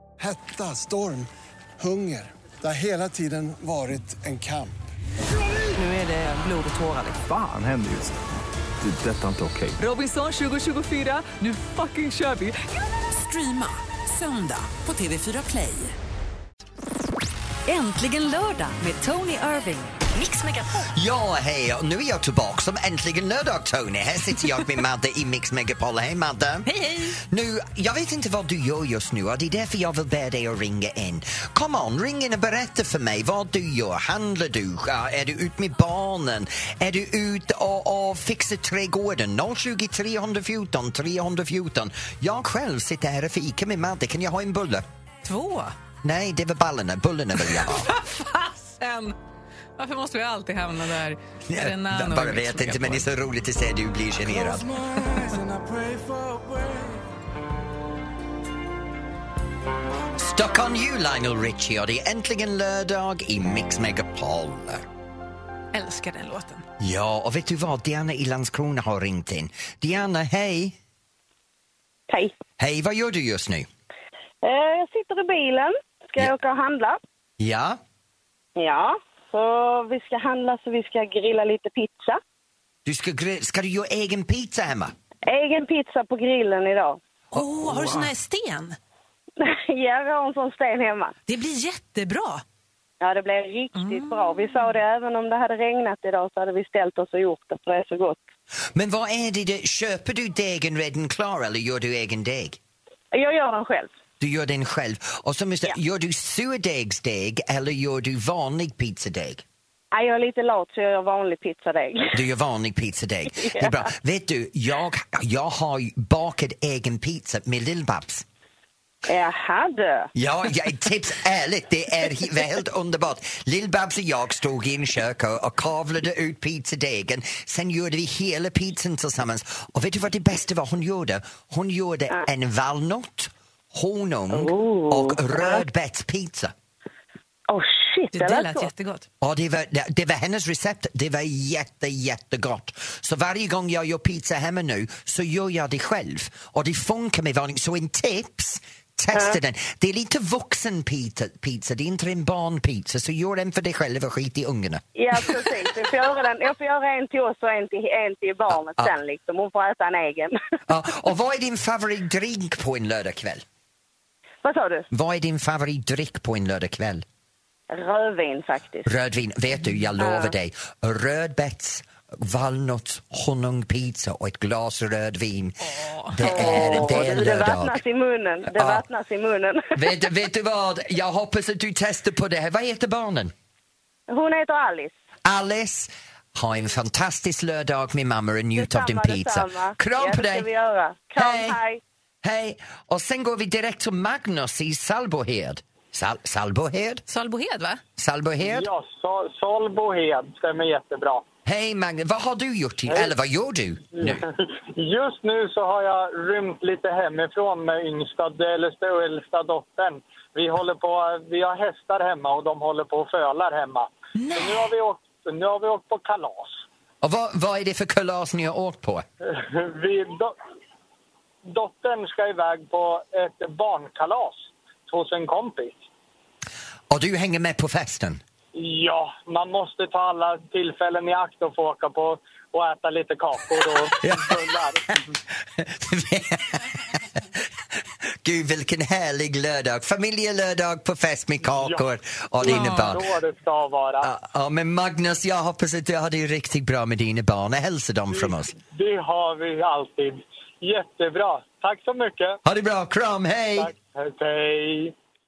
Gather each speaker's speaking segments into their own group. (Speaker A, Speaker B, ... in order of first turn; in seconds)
Speaker A: 0.2-1.3, 1.8-4.8, 54.4-57.0
Speaker B: 5.7-7.3, 9.8-16.0
Speaker C: 7.2-8.2, 8.8-9.8
Speaker D: 17.7-20.9
Speaker E: 20.9-26.7, 27.3-44.9, 46.0-47.9, 51.5-54.7, 60.2-64.8, 66.8-70.8, 72.6-73.7, 77.4-77.8, 82.8-84.9, 87.4-88.1, 98.7-102.6, 104.2-109.5, 112.1-118.2, 120.2-136.5, 139.2-154.8, 160.7-163.4, 164.9-167.1, 168.8-177.8, 178.5-178.8, 179.8-183.3, 185.2-190.5, 191.2-191.6, 192.2-197.1, 198.0-198.7, 201.4-204.2, 217.0-219.1, 226.9-228.2, 234.0-243.0, 244.0-248.5, 252.4-253.7
Speaker F: 45.2-45.8, 47.5-49.2, 49.8-53.0, 65.7-66.7, 87.3-88.8, 91.3-92.4, 93.8-94.6, 138.1-139.1, 175.7-176.9, 197.1-197.8, 214.2-214.7, 242.4-242.9
Speaker G: 74.4-77.0, 78.6-82.2, 85.3-87.0, 89.4-91.1, 93.0-98.2, 103.1-103.9, 109.9-112.1, 113.4-113.9, 119.1-120.1, 134.3-135.6, 137.5-138.7, 149.1-149.4, 154.9-160.4, 164.4-164.9, 167.7-168.9, 170.0-170.3, 176.2-179.7, 184.1-184.9, 188.6-191.8
Speaker H: 198.4-201.2, 202.9-203.1, 203.9-216.7, 219.3-220.3, 221.5-225.8, 228.6-235.0, 241.6-241.9, 242.4-244.1, 248.1-252.4, 253.6-254.9